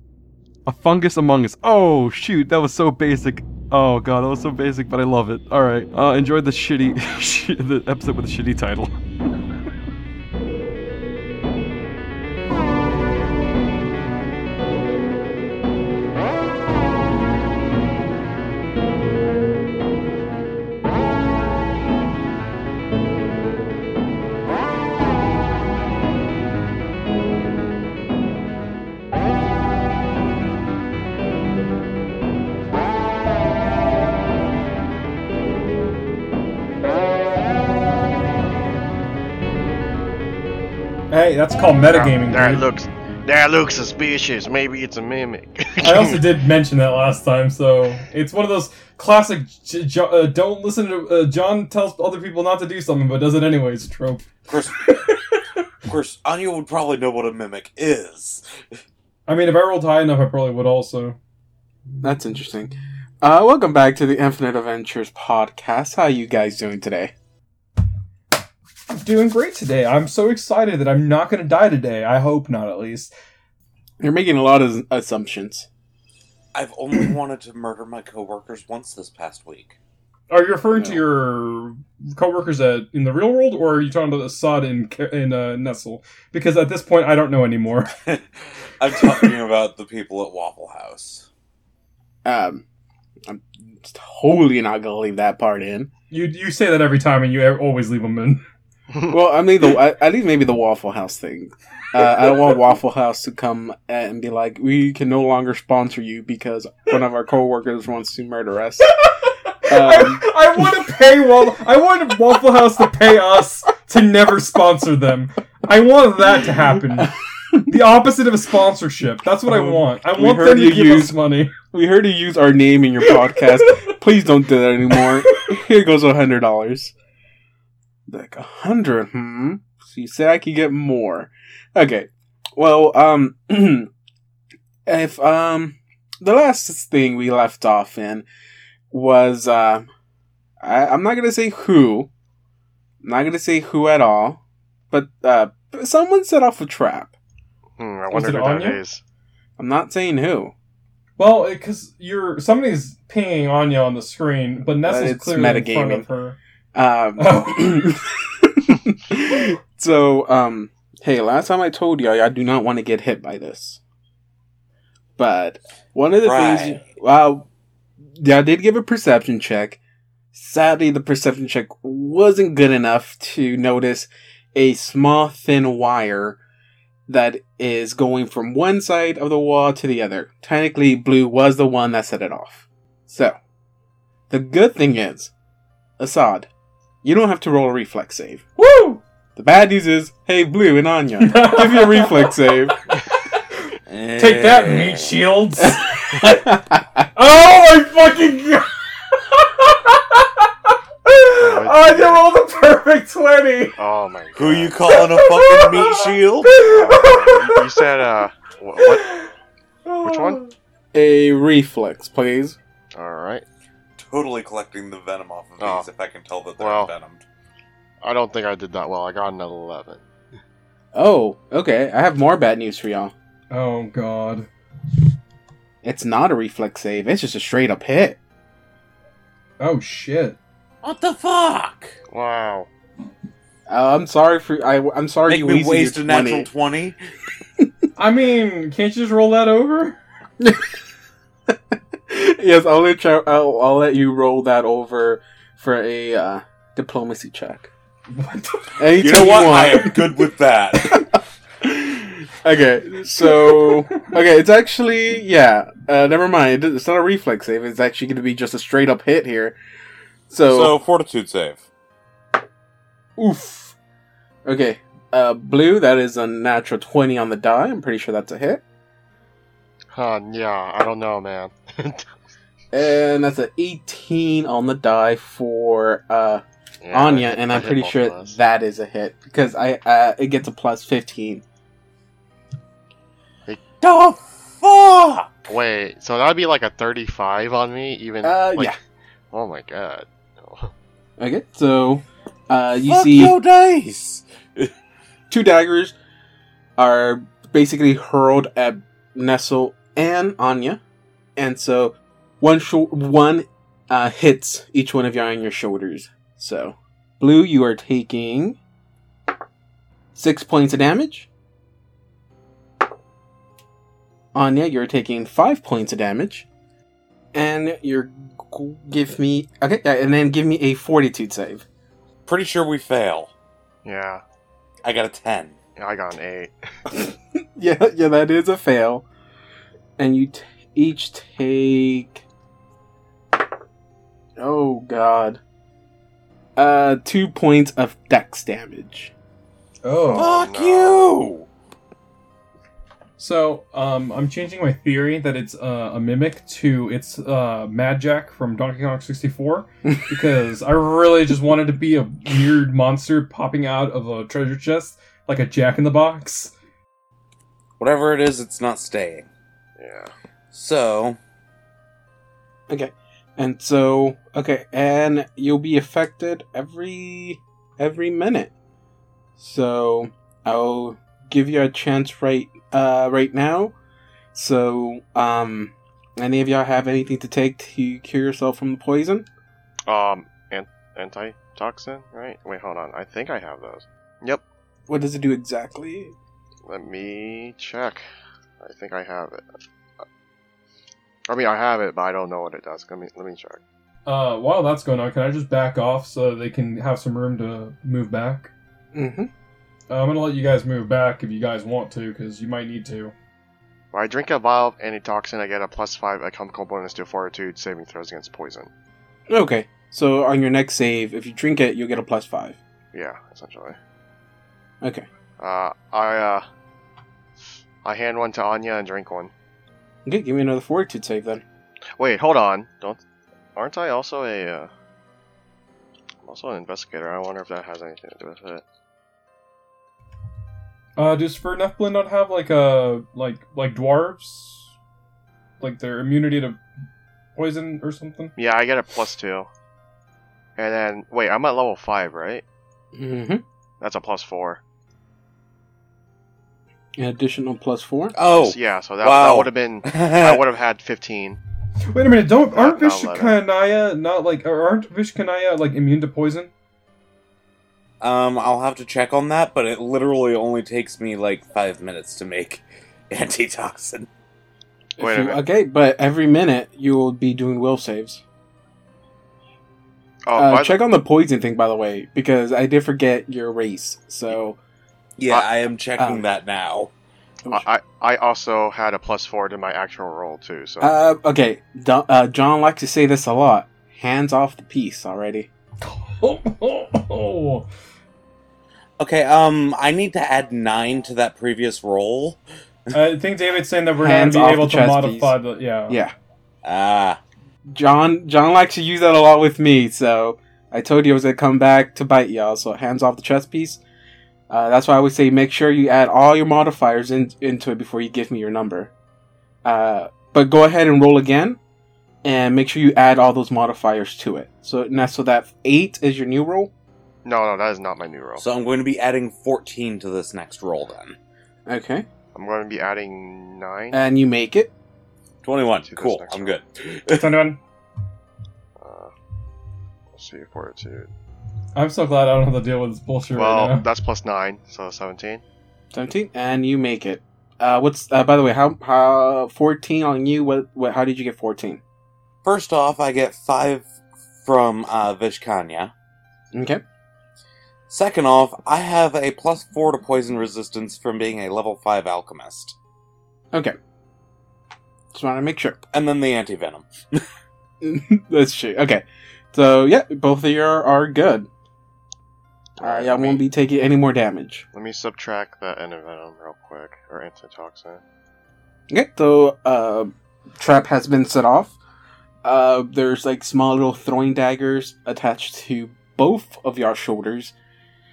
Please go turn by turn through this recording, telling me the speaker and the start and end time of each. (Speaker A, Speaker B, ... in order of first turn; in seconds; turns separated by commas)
Speaker A: 0.7-8.9, Speaker B: 41.1-42.6, Speaker C: 41.9-46.3, Speaker B: 45.8-55.6, Speaker D: 54.5-55.0, Speaker D: 55.9-58.4, Speaker B: 59.3-61.2, Speaker E: 62.0-67.1, Speaker B: 68.9-73.1, Speaker E: 74.0-75.7, Speaker D: 76.5-79.8, Speaker B: 80.3-87.9, Speaker D: 88.0-91.3, Speaker E: 92.2-92.6, Speaker E: 93.2-95.9, Speaker B: 96.1-98.4, Speaker E: 99.1-108.9, Speaker B: 108.8-117.1, Speaker E: 109.7-110.3, Speaker E: 117.0-117.7, Speaker B: 117.7-121.5, Speaker E: 119.5-126.9, Speaker E: 128.1-133.9, Speaker E: 134.8-138.2, Speaker E: 138.9-139.9, Speaker E: 140.6-142.1, Speaker E: 143.0-144.4, Speaker E: 144.9-147.1, Speaker C: 147.8-149.0, Speaker B: 148.1-148.8, Speaker E: 149.6-150.5, Speaker B: 151.2-156.4, Speaker E: 154.8-156.1, Speaker E: 156.7-163.8, Speaker B: 157.2-157.9, Speaker E: 165.2-167.5, Speaker D: 166.2-166.8, Speaker E: 168.0-169.8, Speaker E: 170.3-176.4, Speaker E: 177.1-183.4, Speaker E: 184.3-185.3, Speaker E: 186.0-186.5, Speaker E: 187.0-188.4, Speaker B: 188.6-189.0, Speaker E: 189.3-192.8, Speaker B: 191.2-192.4, Speaker B: 193.1-193.4, Speaker D: 193.9-195.2, Speaker B: 194.2-196.5, Speaker E: 195.6-197.1, Speaker B: 197.2-203.8, Speaker C: 201.4-202.2, Speaker C: 203.8-204.8, Speaker D: 204.3-206.6, Speaker B: 204.9-207.7, Speaker C: 206.6-209.0, Speaker B: 208.8-209.3, Speaker B: 209.8-210.5, Speaker C: 210.0-210.4, Speaker E: 210.9-212.6, Speaker C: 212.9-213.4, Speaker D: 214.0-217.2, Speaker C: 215.6-215.9, Speaker C: 216.6-216.9, Speaker C: 218.0-220.0, Speaker E: 220.9-223.1, Speaker B: 223.5-224.5, Speaker E: 225.8-228.2, Speaker B: 229.6-230.4, Speaker D: 230.8-231.9, Speaker C: 232.1-232.7, Speaker E: 233.7-236.5, Speaker D: 235.3-237.0, Speaker B: 237.9-240.0, Speaker E: 240.4-240.7, Speaker E: 241.5-247.7, Speaker B: 248.1-249.6, Speaker E: 248.8-259.6, Speaker D: 249.0-251.1, Speaker B: 253.1-254.1, Speaker E: 260.3-260.7, Speaker D: 260.5-261.6, Speaker E: 263.2-263.7, Speaker E: 264.4-268.6, Speaker C: 269.9-272.1, Speaker E: 272.7-281.4, Speaker C: 276.8-278.4, Speaker D: 283.8-285.3, Speaker C: 285.5-288.7, Speaker E: 288.2-288.8, Speaker C: 289.3-290.7, Speaker E: 291.2-293.4, Speaker D: 292.9-294.7, Speaker E: 295.3-295.9, Speaker E: 296.8-300.8, Speaker E: 301.4-308.6, Speaker E: 310.1-311.3, Speaker E: 314.3-316.5, Speaker E: 317.3-321.6, Speaker D: 322.2-323.3, Speaker C: 323.8-324.2, Speaker D: 324.8-325.6, Speaker C: 325.8-326.5, Speaker E: 326.9-329.1, Speaker E: 330.0-332.2, Speaker E: 334.4-335.4, Speaker E: 336.6-339.1, Speaker B: 339.8-340.3, Speaker C: 340.0-341.1, Speaker D: 340.1-341.5, Speaker B: 343.2-356.5, Speaker D: 357.8-359.3, Speaker C: 359.8-360.1, Speaker D: 360.5-361.2, Speaker E: 362.7-368.5, Speaker E: 369.4-373.7, Speaker E: 374.3-379.3, Speaker C: 379.9-384.4, Speaker E: 384.9-386.1, Speaker C: 386.7-388.0, Speaker C: 388.6-389.4, Speaker C: 391.3-393.6, Speaker B: 394.1-398.5, Speaker E: 398.9-399.3, Speaker B: 399.9-403.1, Speaker C: 403.9-408.7, Speaker E: 409.3-412.6, Speaker C: 412.9-413.8, Speaker E: 414.8-415.1, Speaker C: 415.4-416.4, Speaker C: 417.8-419.3, Speaker E: 420.1-421.4, Speaker C: 422.0-423.0, Speaker C: 423.6-424.7, Speaker C: 426.2-428.6, Speaker B: 431.0-434.7, Speaker B: 435.6-436.6, Speaker B: 437.4-438.3, Speaker C: 438.4-439.5, Speaker C: 440.6-442.4, Speaker E: 442.9-443.4, Speaker C: 443.8-444.6, Speaker E: 447.0-448.1, Speaker D: 448.1-450.4, Speaker C: 448.3-451.4, Speaker B: 451.9-456.5, Speaker C: 452.5-453.4, Speaker D: 458.0-464.1, Speaker E: 465.0-468.2, Speaker C: 465.0-465.4, Speaker C: 470.2-470.8, Speaker E: 470.3-474.6, Speaker D: 475.2-476.9, Speaker E: 476.0-476.2, Speaker C: 477.5-480.9, Speaker E: 480.8-485.5, Speaker B: 485.8-487.7, Speaker D: 489.0-492.9, Speaker B: 492.9-496.0, Speaker E: 494.0-495.4, Speaker D: 496.6-497.2, Speaker E: 497.6-503.8, Speaker E: 504.5-508.9, Speaker E: 509.6-511.6, Speaker E: 512.2-516.7, Speaker C: 517.2-518.4, Speaker D: 518.4-521.2, Speaker E: 521.6-522.1, Speaker C: 522.3-524.0, Speaker E: 523.9-524.7, Speaker D: 525.4-527.4, Speaker C: 525.8-526.5, Speaker B: 527.1-527.6, Speaker C: 528.8-529.1, Speaker C: 530.1-531.1, Speaker B: 531.7-533.9, Speaker C: 533.3-535.4, Speaker E: 535.9-541.8, Speaker D: 542.4-543.9, Speaker D: 544.4-545.9, Speaker E: 546.5-546.8, Speaker D: 547.9-552.7, Speaker E: 555.1-555.8, Speaker D: 555.9-557.2, Speaker E: 557.8-561.5, Speaker C: 562.8-563.4, Speaker E: 562.8-564.6, Speaker C: 564.7-568.0, Speaker E: 568.9-571.8, Speaker E: 572.4-577.5